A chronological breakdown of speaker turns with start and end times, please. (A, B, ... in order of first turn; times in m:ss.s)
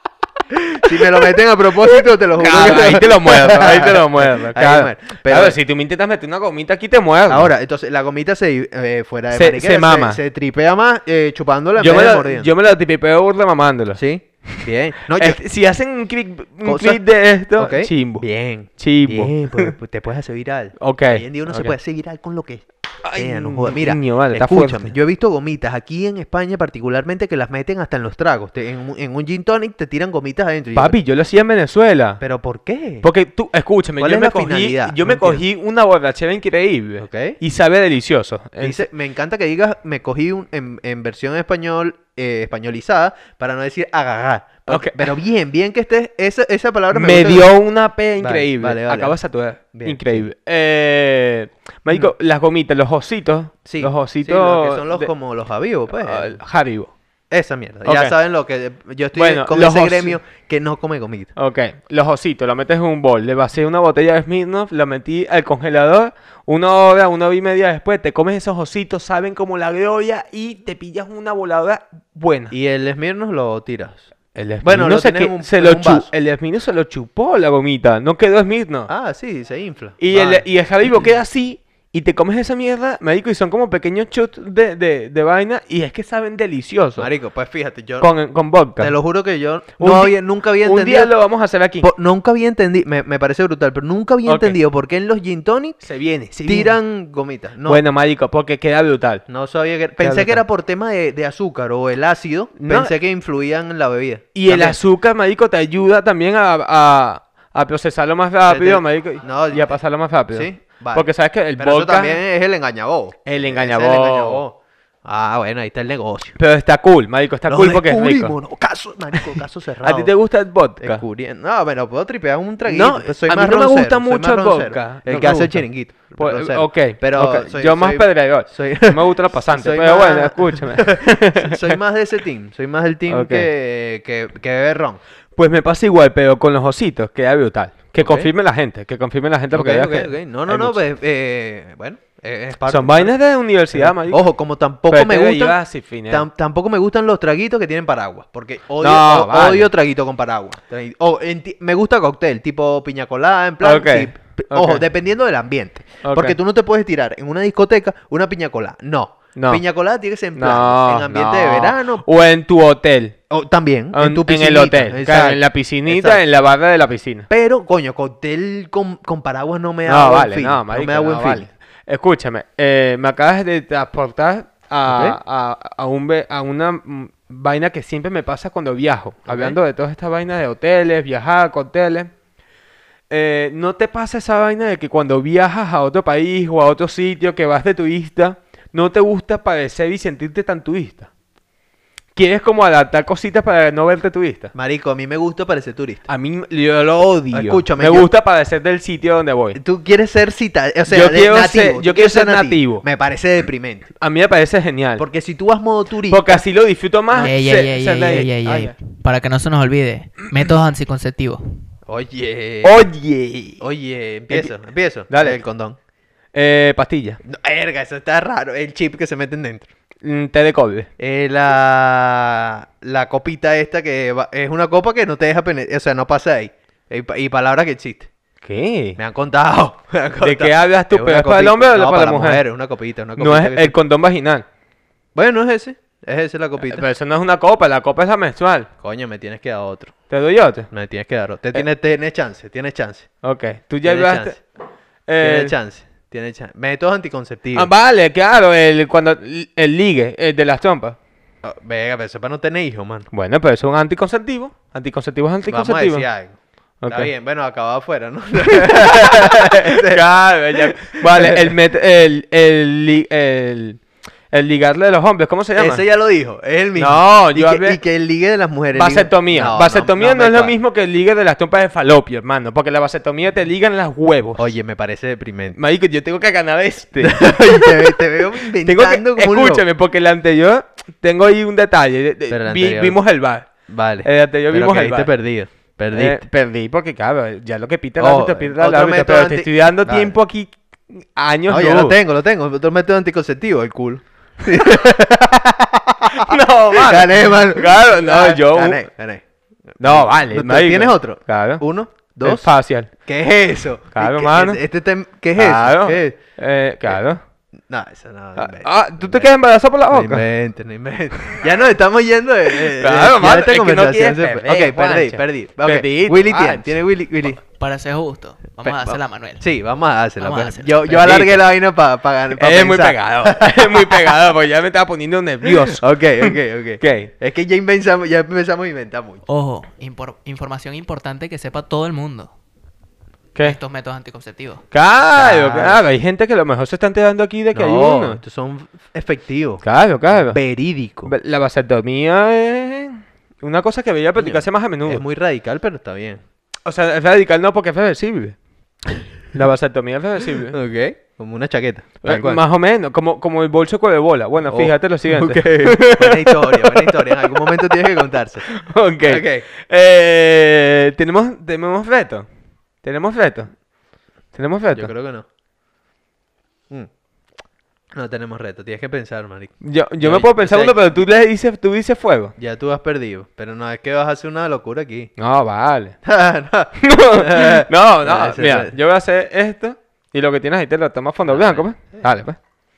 0:00.5-0:05.6 A
0:01.9-0:07.5 B
0:07.3-0:12.5 A
0:09.3-0:10.2 B
0:11.8-0:19.7 B
0:14.0-0:15.4 A
0:16.6-0:31.0 A
0:20.8-0:21.8 B
0:23.0-0:25.0 B
0:30.8-0:32.2 B
0:32.2-0:33.1 A
0:33.0-0:38.9 B
0:34.0-0:35.4 A
0:37.0-0:37.4 A
0:38.6-0:47.5 A
0:44.7-0:45.1 B
0:46.9-0:55.1 B
0:48.2-0:50.3 A
0:53.6-0:56.4 A
0:55.9-0:56.9 B
0:57.3-1:01.3 A
0:57.8-0:58.1 B
0:59.2-1:00.2 B
1:01.4-1:12.5 B
1:12.5-1:14.1 A
1:14.4-1:18.9 B
1:14.6-1:16.1 A
1:18.9-1:20.4 A
1:20.0-1:27.1 B
1:27.0-1:28.1 A
1:28.0-1:28.9 B
1:28.8-1:31.1 A
1:29.8-1:31.9 B
1:31.8-1:35.8 A
1:34.2-1:34.6 B
1:35.8-1:36.8 B
1:36.4-1:37.8 A
1:37.7-1:39.2 B
1:39.3-1:44.8 A
1:40.0-1:40.4 B
1:42.6-1:42.9 B
1:44.4-1:52.2 B
1:48.5-1:49.8 A
1:50.3-1:56.4 A
1:53.2-1:54.4 B
1:56.4-1:58.4 B
1:57.5-2:00.1 A
1:59.1-2:01.0 B
2:00.8-2:15.0 A
2:02.7-2:11.8 B
2:13.1-2:13.5 B
2:15.4-2:20.8 B
2:18.0-2:18.3 A
2:19.5-2:23.1 A
2:22.7-2:24.2 B
2:23.7-2:42.0 A
2:24.9-2:26.3 B
2:28.8-2:29.7 B
2:33.6-2:34.8 B
2:36.0-2:36.4 B
2:39.4-2:39.6 B
2:40.4-2:43.2 B
2:43.3-2:46.2 A
2:43.9-2:47.3 B
2:47.3-2:51.5 A
2:49.9-3:02.1 B
2:54.9-2:55.2 A
2:59.3-2:59.6 A
3:03.1-3:11.1 B
3:12.2-3:14.5 B
3:14.6-3:16.1 A
3:16.1-3:19.6 B
3:17.3-3:18.1 A
3:19.6-3:23.9 A
3:20.9-3:22.8 B
3:24.0-3:25.0 B
3:25.0-3:26.4 A
3:26.1-3:28.7 B
3:27.2-3:31.7 C
3:31.9-3:32.9 A
3:32.6-3:33.6 B
3:33.6-3:35.8 A
3:35.1-3:35.4 B
3:36.3-3:37.2 B
3:37.2-3:39.7 A
3:40.0-3:40.9 B
3:41.0-3:48.1 A
3:48.4-3:49.0 B
3:49.0-3:53.8 A
3:50.2-3:52.4 B
3:53.2-3:54.4 B
3:55.1-3:56.8 A
3:56.6-3:58.7 B
3:58.8-4:00.0 A
4:00.1-4:00.7 B
4:00.7-4:03.1 A
4:03.2-4:04.4 B
4:03.8-4:04.4 A
4:05.1-4:05.6 B
4:05.2-4:07.7 A
4:07.5-4:11.0 B
4:11.4-4:13.1 A
4:13.1-4:16.1 B
4:15.5-4:21.5 A
4:16.8-4:17.1 B
4:18.5-4:25.8 B
4:25.6-4:30.6 A
4:26.8-4:27.8 B
4:28.8-4:34.5 B
4:34.4-4:35.6 A
4:35.6-4:43.5 B
4:37.0-4:39.6 A
4:42.3-4:43.0 A
4:43.7-4:46.2 A
4:44.0-4:45.1 B
4:45.9-4:52.0 B
4:48.0-4:50.2 A
4:51.5-5:06.2 A
4:56.1-4:58.8 B
4:59.8-5:01.6 B
5:02.2-5:02.9 B
5:03.9-5:04.6 B
5:05.4-5:07.2 B
5:07.7-5:09.3 A
5:08.4-5:10.2 B
5:09.9-5:17.4 A
5:12.5-5:16.8 B
5:17.5-5:19.5 C
5:18.6-5:24.2 A
5:20.2-5:20.9 C
5:20.9-5:21.4 B
5:22.3-5:27.1 B
5:25.5-5:29.2 A
5:29.3-5:32.3 C
5:33.4-5:34.6 C
5:34.7-5:38.2 B
5:35.2-5:35.8 A
5:37.5-5:41.1 A
5:39.6-5:40.4 B
5:41.0-5:45.0 B
5:44.2-5:46.2 A
5:46.6-5:48.4 B
5:49.3-5:50.6 B
5:50.5-5:52.4 A
5:52.0-6:02.3 B
5:54.5-5:58.5 A
5:59.0-5:59.5 A
6:02.8-6:03.5 B
6:04.3-6:04.9 B
6:04.7-6:05.2 A
6:07.9-6:10.8 A
6:09.6-6:12.3 B
6:12.4-6:15.1 A
6:15.2-6:16.0 B
6:16.0-6:18.8 A
6:16.8-6:22.4 B
6:21.3-6:22.1 A